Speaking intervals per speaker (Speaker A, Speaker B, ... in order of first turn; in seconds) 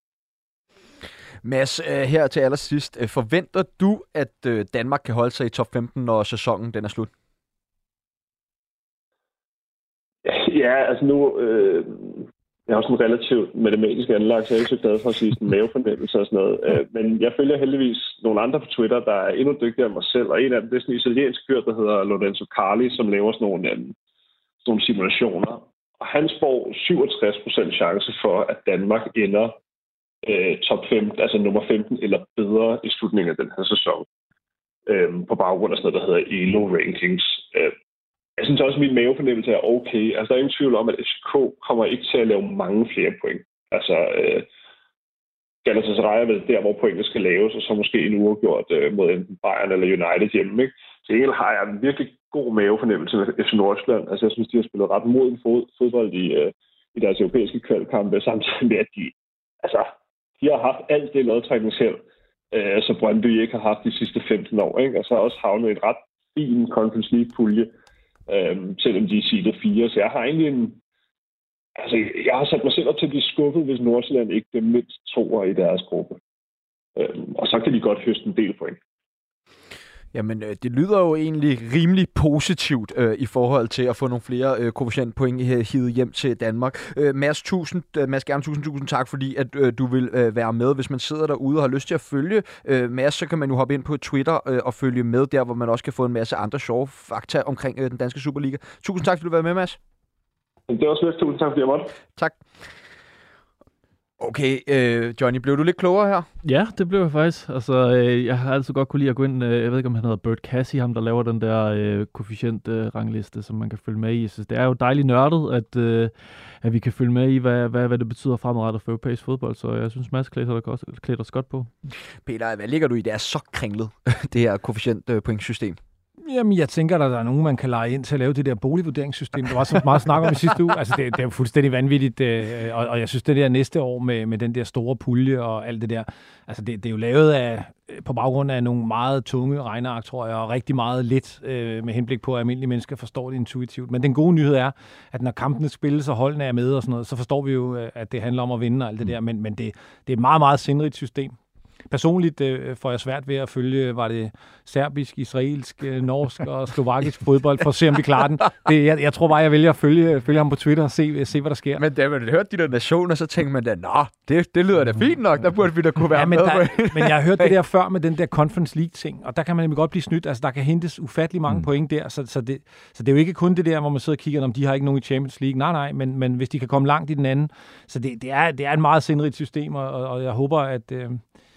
Speaker A: 1.4-7.1, 80.1-99.8, 102.2-102.4, 104.2-106.3, 122.2-125.8, 161.8-167.5
Speaker B: 10.2-23.9, 24.6-29.6, 30.2-34.0, 34.9-37.7, 38.4-44.5, 45.6-62.0, 62.5-67.7, 68.3-70.8, 71.8-76.2, 77.0-78.8, 100.7-101.9
Speaker C: 106.4-116.1, 116.6-121.7
Speaker D: 126.2-151.3, 151.9-161.8, 166.1-181.2